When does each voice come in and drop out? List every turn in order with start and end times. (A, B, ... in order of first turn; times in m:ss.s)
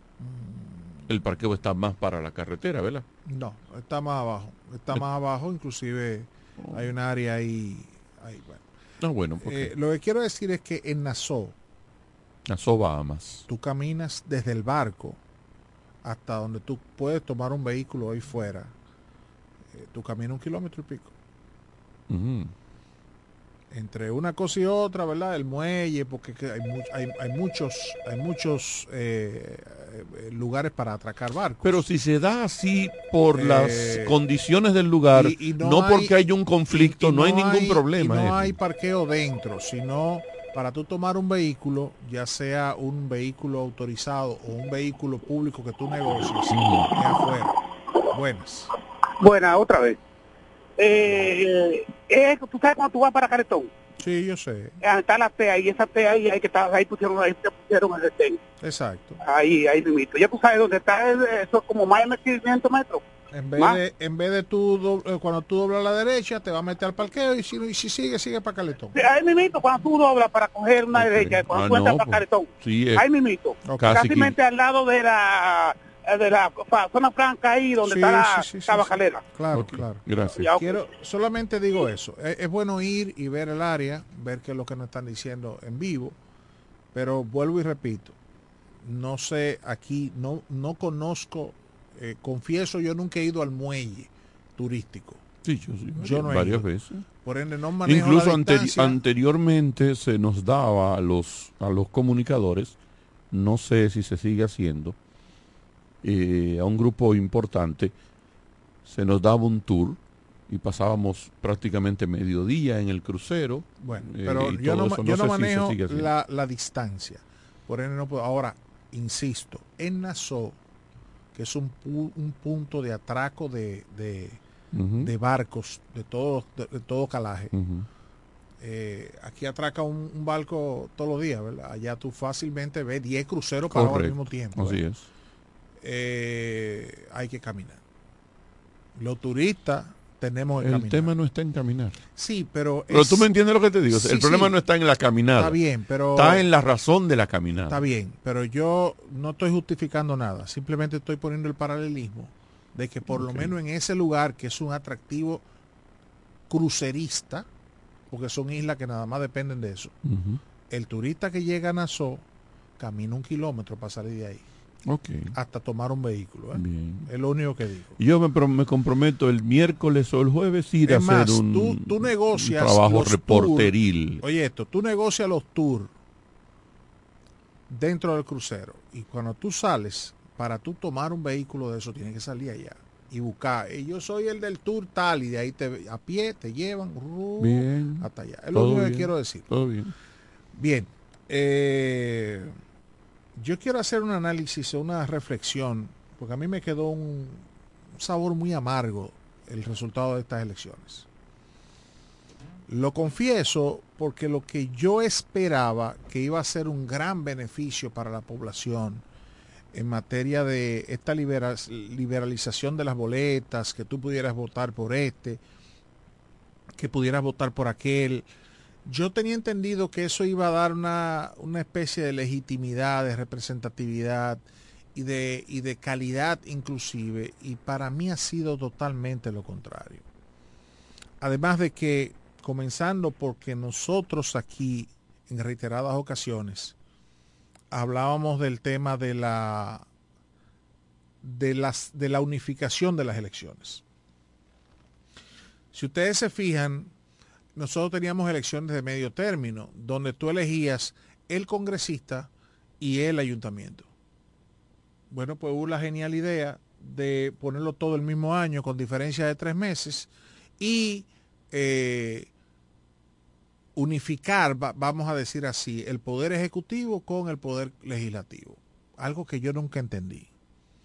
0:00.2-0:01.1 A
0:01.1-0:03.0 B
0:03.3-0:08.6 A
0:06.6-0:06.9 B
0:09.0-0:09.7 B
0:09.4-0:11.6 A
0:12.5-0:13.4 B
0:13.5-0:15.2 A
0:16.0-0:18.7 A
0:19.8-0:21.1 A
0:22.1-0:22.5 B
0:23.7-0:31.8 A
0:31.6-0:38.6 B
0:33.4-0:34.2 A
0:35.1-0:36.1 A
0:36.7-0:47.6 A
0:46.5-0:46.9 B
0:48.1-0:48.7 A
0:49.2-0:50.0 C
0:50.8-0:53.7 C
0:54.0-0:54.8 A
0:54.8-0:58.4 C
0:58.6-0:59.2 A
0:59.2-1:03.0 C
1:03.3-1:09.0 A
1:09.0-1:19.2 C
1:10.9-1:13.0 B
1:13.6-1:14.0 A
1:13.8-1:14.4 B
1:17.8-1:26.2 A
1:19.5-1:20.6 B
1:20.4-1:20.9 C
1:26.9-1:28.2 A
1:28.8-1:35.2 A
1:35.4-1:37.0 B
1:36.0-1:36.7 A
1:37.2-1:39.0 A
1:37.9-1:42.8 B
1:43.3-1:45.0 B
1:46.0-1:47.9 B
1:48.9-1:56.1 B
1:53.8-2:00.6 A
2:01.4-2:04.4 A
2:04.7-2:05.1 B
2:05.0-2:07.5 A
2:07.5-2:07.9 B
2:08.6-2:14.8 A
2:13.7-2:15.0 B
2:15.8-2:17.8 A
2:19.0-2:21.1 A
2:20.6-2:22.0 B
2:22.2-2:23.3 A
2:22.9-2:25.6 B
2:23.9-2:24.6 A
2:25.4-2:26.5 A
2:26.2-2:27.8 B
2:27.7-2:35.4 A
2:33.1-2:33.5 B
2:36.5-2:37.5 A
2:38.1-2:40.0 A
2:40.0-2:40.4 B
2:40.7-2:42.2 A
2:42.8-2:44.4 A
2:44.9-2:45.4 B
2:45.3-2:48.0 A
2:46.5-2:47.1 B
2:48.0-2:54.2 B
2:50.9-2:55.9 A
2:57.7-3:09.5 A
3:07.4-3:09.9 B
3:10.6-3:12.6 A
3:13.4-3:17.4 A
3:18.0-3:21.1 A
3:22.7-3:29.0 A
3:29.7-3:35.4 A
3:36.8-3:38.3 A
3:38.8-3:44.4 A
3:45.0-3:50.0 A
3:51.2-3:56.8 A
3:57.7-3:59.8 A
4:01.2-4:03.8 A
4:05.7-4:06.9 A
4:07.6-4:12.3 A
4:12.8-4:13.9 A
4:15.1-4:22.3 A
4:23.8-4:30.3 A